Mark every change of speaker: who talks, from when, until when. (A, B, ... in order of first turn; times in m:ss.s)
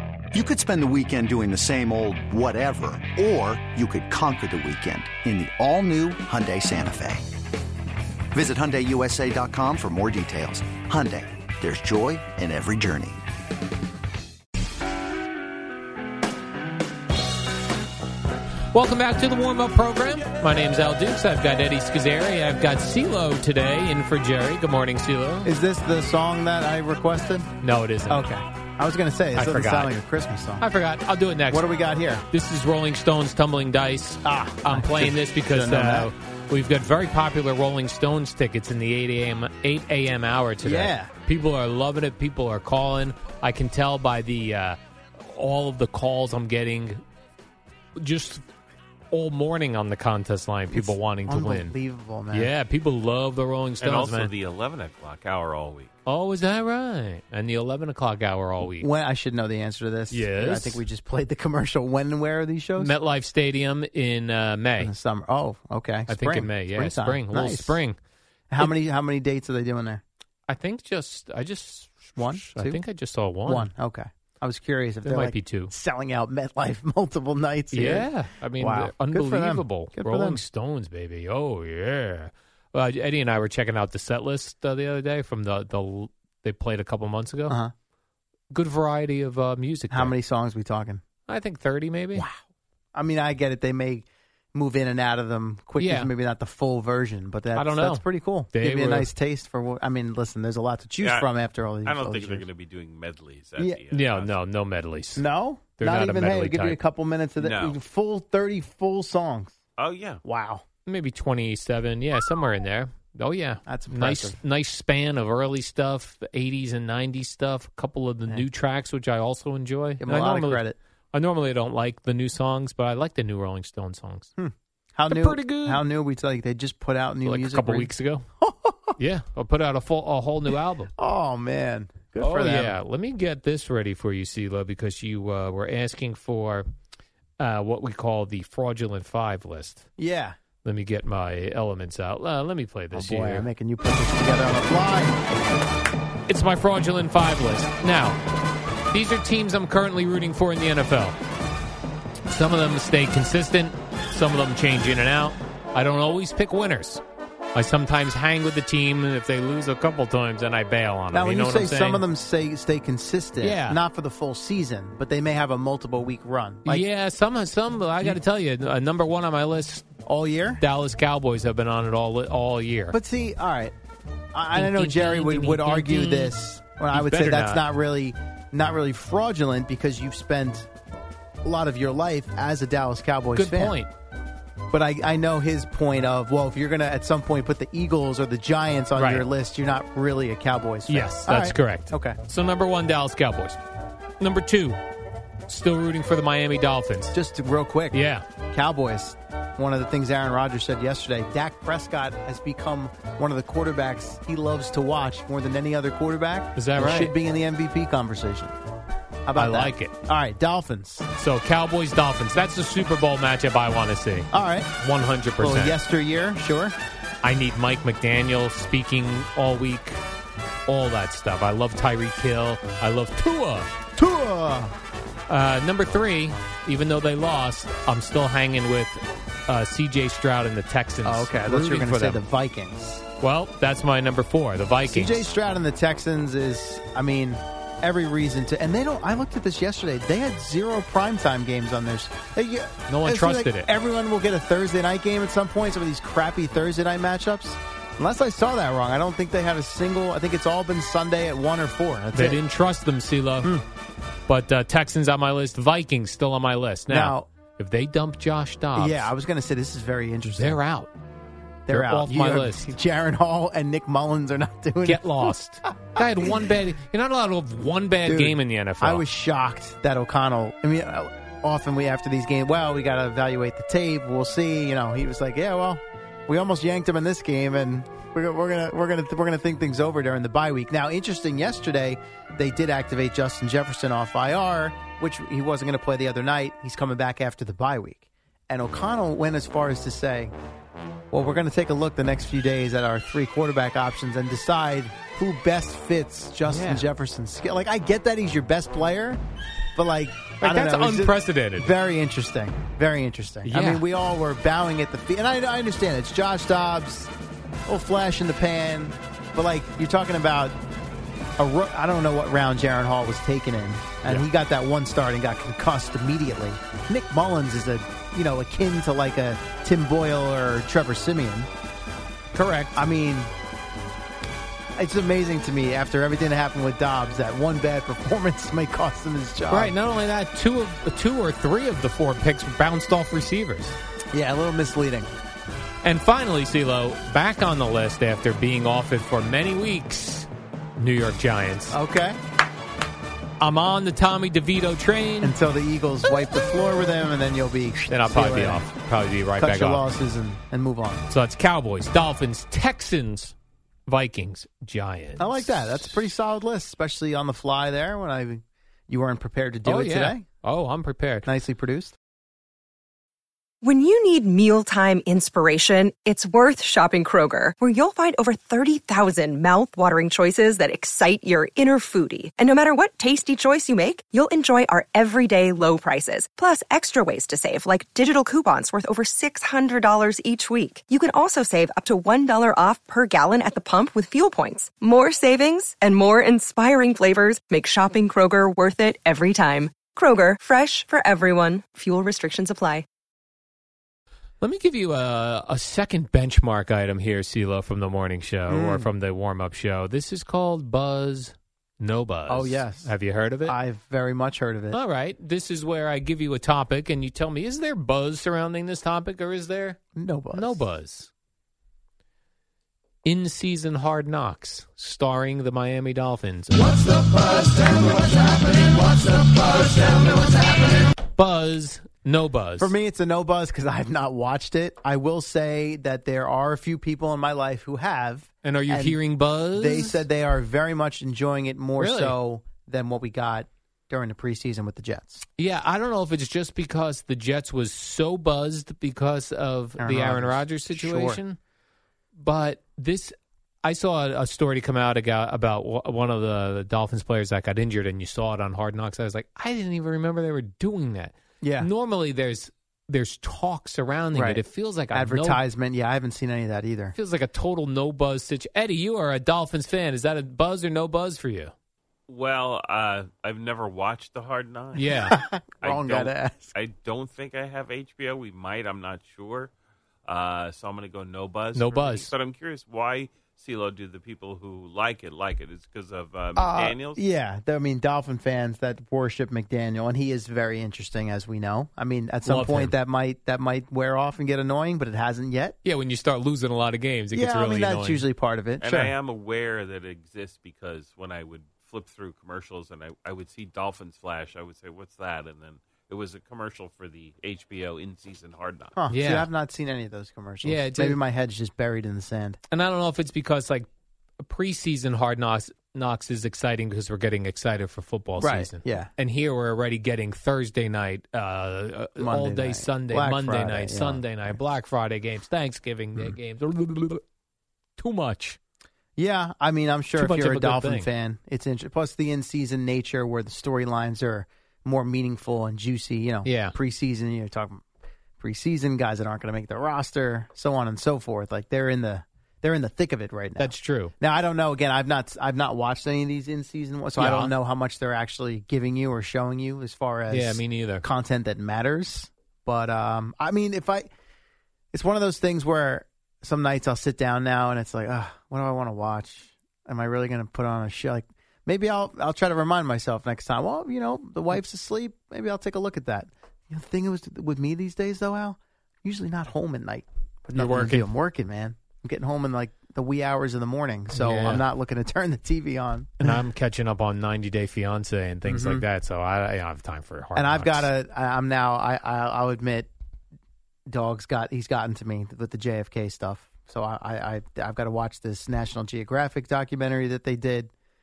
0:00.3-0:07.2 A
0:08.3-0:13.2 A
0:18.7-0:25.5 B
0:25.4-0:27.5 C
0:27.6-0:28.3 B
0:28.1-0:30.6 C
0:29.3-0:29.9 B
0:30.6-0:31.7 B
0:31.5-0:32.2 C
0:32.3-0:47.0 B
0:34.2-0:36.1 C
0:40.6-0:41.1 C
0:48.0-0:48.4 B
0:49.1-0:51.8 B
0:50.7-0:52.5 C
0:52.3-0:54.3 B
0:53.8-0:55.9 D
0:56.0-0:58.9 B
0:58.6-1:02.9 C
1:00.1-1:00.8 B
1:02.8-1:04.9 B
1:04.8-1:07.8 C
1:06.1-1:08.0 B
1:08.5-1:10.0 C
1:10.5-1:13.7 B
1:12.2-1:12.8 C
1:13.4-1:20.4 C
1:15.0-1:15.7 B
1:17.7-1:27.6 B
1:27.5-1:27.7 C
1:28.5-1:30.1 B
1:29.9-1:31.0 C
1:31.3-1:32.2 B
1:32.9-1:42.5 C
1:35.8-1:36.1 B
1:37.5-1:39.1 B
1:41.0-1:41.3 D
1:41.8-1:44.3 D
1:43.9-1:46.8 B
1:45.2-1:49.5 C
1:47.4-1:47.8 D
1:49.8-1:50.2 D
1:50.2-1:50.6 C
1:50.8-2:04.3 B
1:53.6-1:54.4 C
2:00.0-2:00.8 C
2:04.4-2:09.0 C
2:05.1-2:05.8 B
2:07.2-2:08.2 B
2:09.0-2:10.9 B
2:11.0-2:12.8 C
2:12.2-2:16.6 B
2:17.4-2:19.9 B
2:20.0-2:20.4 C
2:20.6-2:23.5 B
2:22.9-2:25.2 C
2:26.3-2:28.2 B
2:28.9-2:31.2 B
2:32.3-2:37.0 B
2:37.5-2:42.0 B
2:41.1-2:46.8 C
2:43.4-2:43.8 B
2:46.6-2:49.9 B
2:50.0-2:50.6 C
2:50.6-2:53.0 B
2:52.9-2:53.7 C
2:54.3-3:00.7 C
2:54.5-2:56.3 B
2:56.9-2:57.6 B
3:01.4-3:03.8 C
3:03.3-3:03.9 B
3:04.7-3:12.2 C
3:08.9-3:09.2 B
3:10.9-3:13.6 B
3:14.2-3:14.8 B
3:15.5-3:17.1 B
3:17.1-3:28.5 C
3:17.9-3:18.2 B
3:26.5-3:27.1 B
3:29.2-3:31.1 C
3:29.3-3:29.9 B
3:31.1-3:35.8 B
3:34.3-3:34.7 C
3:35.4-3:36.7 C
3:37.2-3:40.0 B
3:40.7-3:43.7 B
3:44.0-3:44.7 C
3:45.3-3:52.2 B
3:51.0-3:53.0 C
3:53.2-3:55.2 B
3:54.9-4:12.4 C
4:02.9-4:03.7 B
4:12.1-4:13.5 B
4:14.3-4:19.1 B
4:16.9-4:17.3 C
4:18.7-4:20.6 C
4:20.4-4:20.9 B
4:21.7-4:25.3 C
4:21.7-4:22.7 B
4:24.8-4:29.0 B
4:26.0-4:26.4 C
4:28.0-4:50.3 C
4:51.1-4:59.2 C
4:56.4-4:56.9 B
4:59.8-5:07.1 C
5:00.4-5:01.7 B
5:03.4-5:03.8 B
5:07.7-5:10.6 C
5:11.4-5:21.5 C
5:22.3-5:22.8 B
5:22.7-5:23.3 C
5:24.8-5:29.7 C
5:29.5-5:33.8 B
5:34.1-5:35.1 C
5:35.8-5:41.8 B
5:41.7-5:42.2 C
5:43.4-5:45.3 B
5:45.2-5:48.7 C
5:47.9-5:49.9 B
5:49.4-5:51.0 C
5:51.1-5:53.3 B
5:53.9-5:56.1 B
5:55.2-6:00.2 C
5:59.6-6:01.3 B
6:01.2-6:02.0 C
6:03.6-6:32.8 E
6:34.4-6:43.5 B
6:38.5-6:38.9 C
6:42.3-6:44.8 C
6:44.7-6:49.8 B
6:49.9-6:50.7 C
6:50.3-6:51.1 B
6:53.0-7:00.4 B
7:01.1-7:02.7 B
7:02.6-7:09.0 C
7:08.4-7:10.0 B
7:09.5-7:15.2 C
7:11.8-7:12.2 B
7:15.4-7:21.4 B
7:19.8-7:21.2 C
7:22.1-7:35.4 B
7:31.4-7:31.7 C
7:34.1-7:37.0 C
7:36.9-7:41.5 B
7:42.1-7:44.9 D
7:44.7-7:45.2 B
7:44.8-7:46.6 C
7:45.6-7:49.5 D
7:50.1-7:57.0 D
7:51.5-7:52.1 B
7:56.4-8:05.6 C
8:02.2-8:02.8 B
8:05.6-8:08.0 B
8:07.1-8:08.9 C
8:08.6-8:18.8 D
8:18.7-8:22.4 C
8:18.9-8:19.3 B
8:20.4-8:21.0 B
8:22.5-8:23.7 B
8:24.2-8:37.0 B
8:28.2-8:28.9 C
8:32.0-8:34.2 C
8:37.8-8:38.4 B
8:39.0-8:47.6 C
8:40.0-8:40.9 B
8:46.2-8:46.5 B
8:48.2-9:03.9 C
8:53.4-8:53.9 B
8:57.0-8:57.3 B
9:00.1-9:00.8 B
9:04.7-9:26.1 C
9:20.3-9:20.9 B
9:23.9-9:24.4 B
9:26.0-9:30.7 B
9:28.2-9:28.6 C
9:30.1-9:32.7 C
9:33.7-9:40.5 C